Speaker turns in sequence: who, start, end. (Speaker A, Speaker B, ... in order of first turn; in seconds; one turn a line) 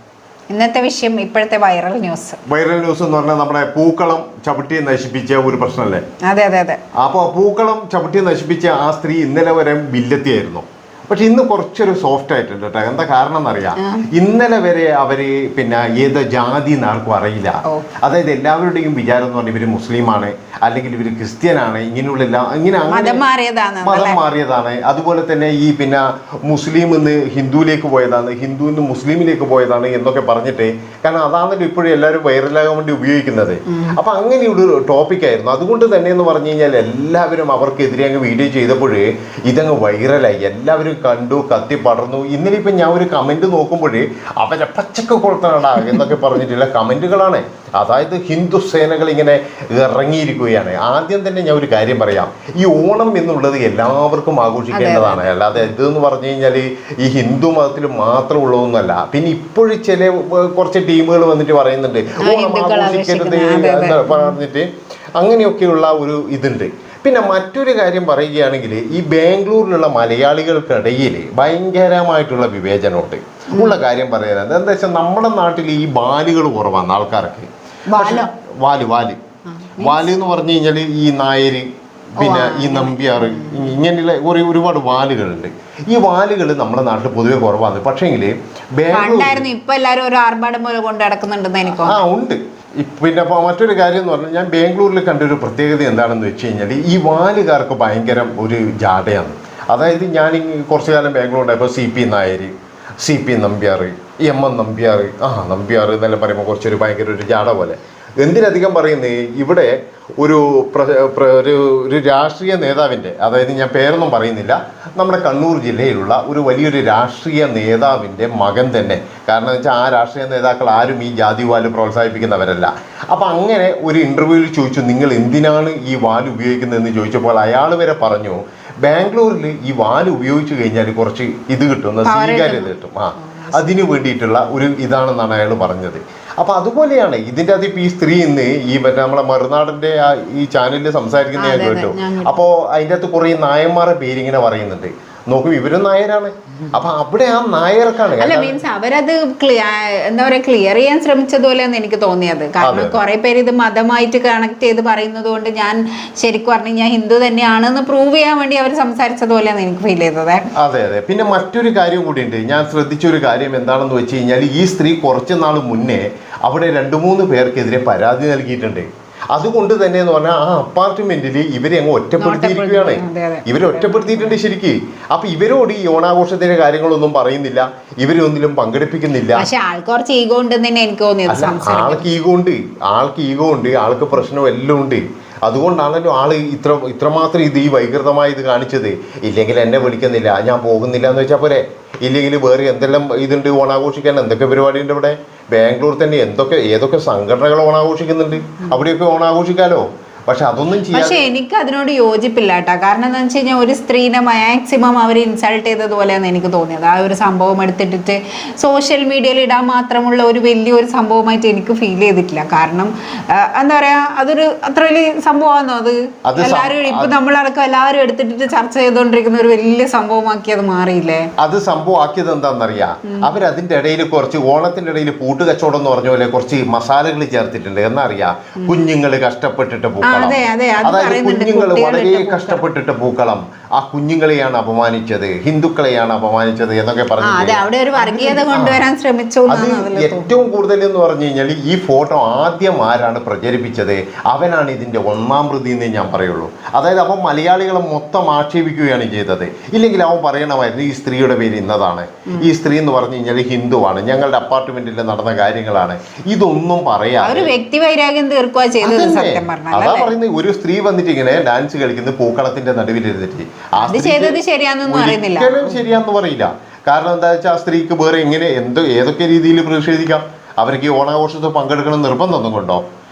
Speaker A: 0.5-2.4
Speaker B: 2.5-6.0
Speaker A: 6.2-6.8
Speaker B: 7.0-23.2
Speaker A: 13.8-14.1
Speaker A: 22.9-24.2
Speaker B: 23.8-79.2
Speaker A: 54.7-55.2
Speaker A: 62.2-64.3
Speaker A: 73.5-73.8
Speaker A: 77.9-78.3
Speaker A: 79.6-80.1
Speaker B: 79.8-89.5
Speaker A: 82.2-83.8
Speaker A: 88.9-92.0
Speaker B: 91.7-148.6
Speaker A: 132.0-132.7
Speaker A: 133.4-133.8
Speaker A: 141.4-142.4
Speaker A: 148.2-160.5
Speaker B: 152.6-153.0
Speaker B: 160.6-179.5
Speaker A: 172.2-174.4
Speaker A: 179.3-182.1
Speaker B: 181.3-201.2
Speaker A: 200.9-221.3
Speaker B: 216.3-217.1
Speaker B: 221.4-238.8
Speaker A: 230.0-232.6
Speaker A: 237.2-240.3
Speaker B: 239.5-257.5
Speaker A: 257.2-260.1
Speaker B: 258.8-272.8
Speaker A: 263.8-265.8